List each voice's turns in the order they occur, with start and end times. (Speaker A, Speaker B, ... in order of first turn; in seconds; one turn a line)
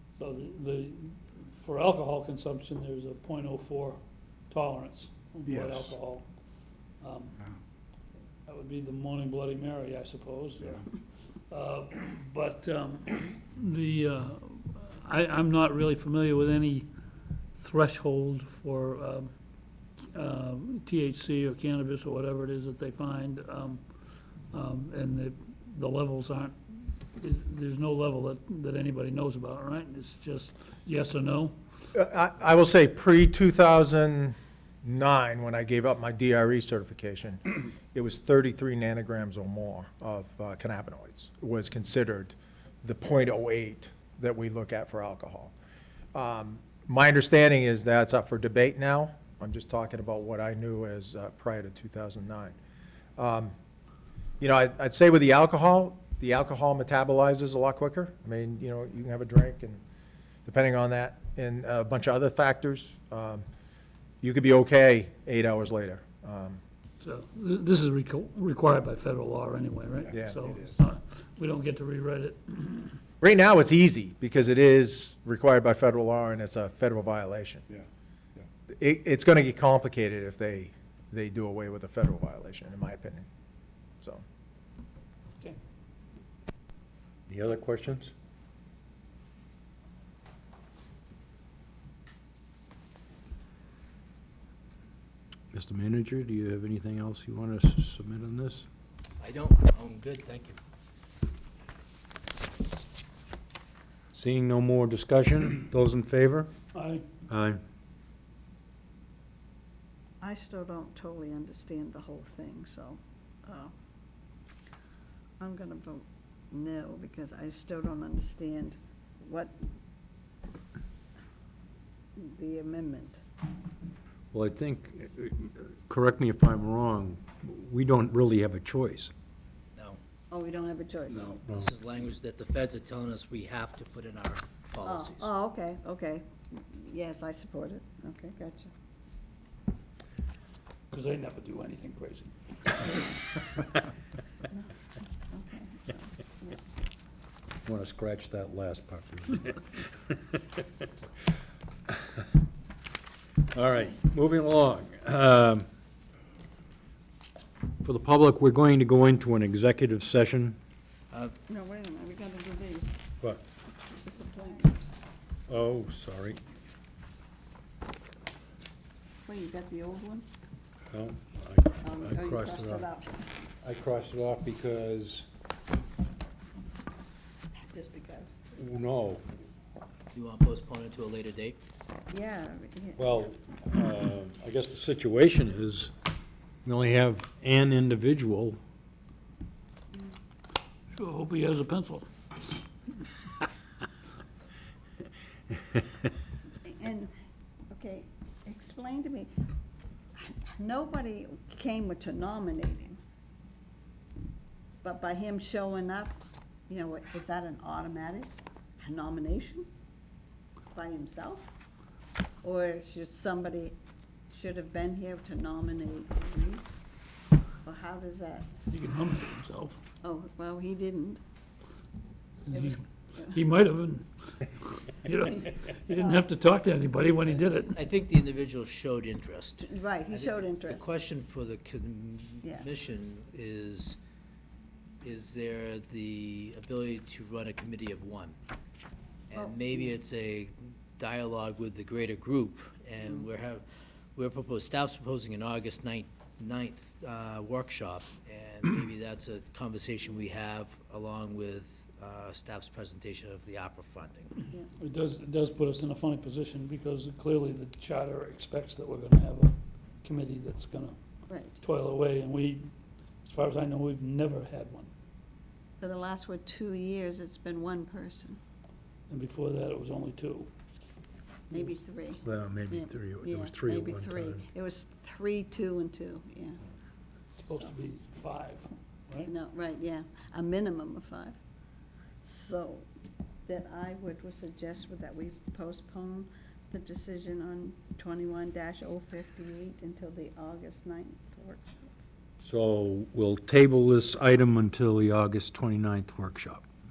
Speaker A: 0.2-4.0
Speaker A: 4.5-6.3
Speaker B: 5.5-6.0
Speaker A: 7.0-7.4
Speaker A: 8.5-11.0
Speaker A: 11.5-16.9
Speaker A: 17.6-19.3
Speaker A: 20.1-23.8
Speaker A: 24.5-31.6
Speaker C: 32.1-32.4
Speaker D: 32.2-34.4
Speaker D: 34.9-37.4
Speaker D: 38.0-42.3
Speaker C: 38.1-38.5
Speaker C: 39.5-39.9
Speaker C: 40.8-41.9
Speaker D: 42.9-45.4
Speaker C: 44.0-44.4
Speaker D: 46.2-49.4
Speaker C: 46.7-47.4
Speaker C: 48.1-48.4
Speaker C: 49.0-50.0
Speaker D: 50.0-52.4
Speaker C: 54.4-54.7
Speaker D: 54.6-59.8
Speaker C: 56.0-56.5
Speaker C: 58.2-58.9
Speaker D: 60.5-63.4
Speaker C: 60.5-62.2
Speaker C: 63.0-63.4
Speaker C: 64.2-64.6
Speaker D: 64.6-66.6
Speaker C: 65.4-66.4
Speaker A: 67.0-73.0
Speaker B: 70.0-70.7
Speaker D: 73.2-77.6
Speaker B: 77.7-78.5
Speaker D: 78.8-83.2
Speaker C: 82.7-83.2
Speaker E: 87.3-88.1
Speaker E: 95.5-98.7
Speaker F: 99.2-100.6
Speaker E: 104.1-106.5
Speaker A: 106.7-107.0
Speaker E: 107.3-107.6
Speaker C: 110.2-112.9
Speaker C: 115.4-118.7
Speaker C: 122.2-123.0
Speaker E: 124.3-129.1
Speaker C: 130.3-131.2
Speaker F: 131.1-135.3
Speaker C: 134.9-138.7
Speaker A: 140.9-142.3
Speaker C: 144.5-145.9
Speaker D: 145.6-146.0
Speaker E: 147.7-149.9
Speaker E: 153.5-155.7
Speaker E: 157.8-160.6
Speaker C: 161.5-163.0
Speaker C: 164.1-164.8
Speaker E: 165.5-166.4
Speaker C: 169.3-170.2
Speaker E: 170.9-172.9
Speaker C: 171.8-173.3
Speaker E: 173.6-175.3
Speaker C: 177.7-178.2
Speaker E: 178.6-179.2
Speaker F: 180.1-181.6
Speaker C: 182.1-183.0
Speaker E: 183.0-185.9
Speaker E: 186.7-188.6
Speaker A: 190.9-192.1
Speaker C: 197.7-199.3
Speaker C: 200.2-202.8
Speaker C: 204.8-206.1
Speaker C: 206.7-208.3
Speaker C: 208.8-209.6
Speaker C: 210.8-211.4
Speaker C: 212.4-213.7
Speaker C: 214.3-216.6
Speaker C: 217.7-218.4
Speaker A: 218.7-219.8
Speaker C: 220.0-221.2
Speaker A: 222.5-224.1
Speaker C: 222.5-223.4
Speaker A: 224.8-227.8
Speaker C: 225.9-226.2
Speaker F: 227.8-234.0
Speaker C: 229.7-230.7
Speaker F: 235.0-238.4
Speaker F: 239.3-243.6
Speaker F: 244.2-254.3
Speaker A: 254.8-261.0
Speaker C: 261.3-261.6
Speaker A: 261.6-262.7
Speaker A: 263.2-264.9
Speaker C: 265.8-268.4
Speaker A: 269.1-270.5
Speaker C: 271.6-276.6
Speaker E: 272.2-274.4
Speaker A: 277.4-279.3
Speaker C: 279.3-281.4
Speaker C: 282.2-282.8
Speaker C: 283.5-291.7
Speaker E: 292.4-296.7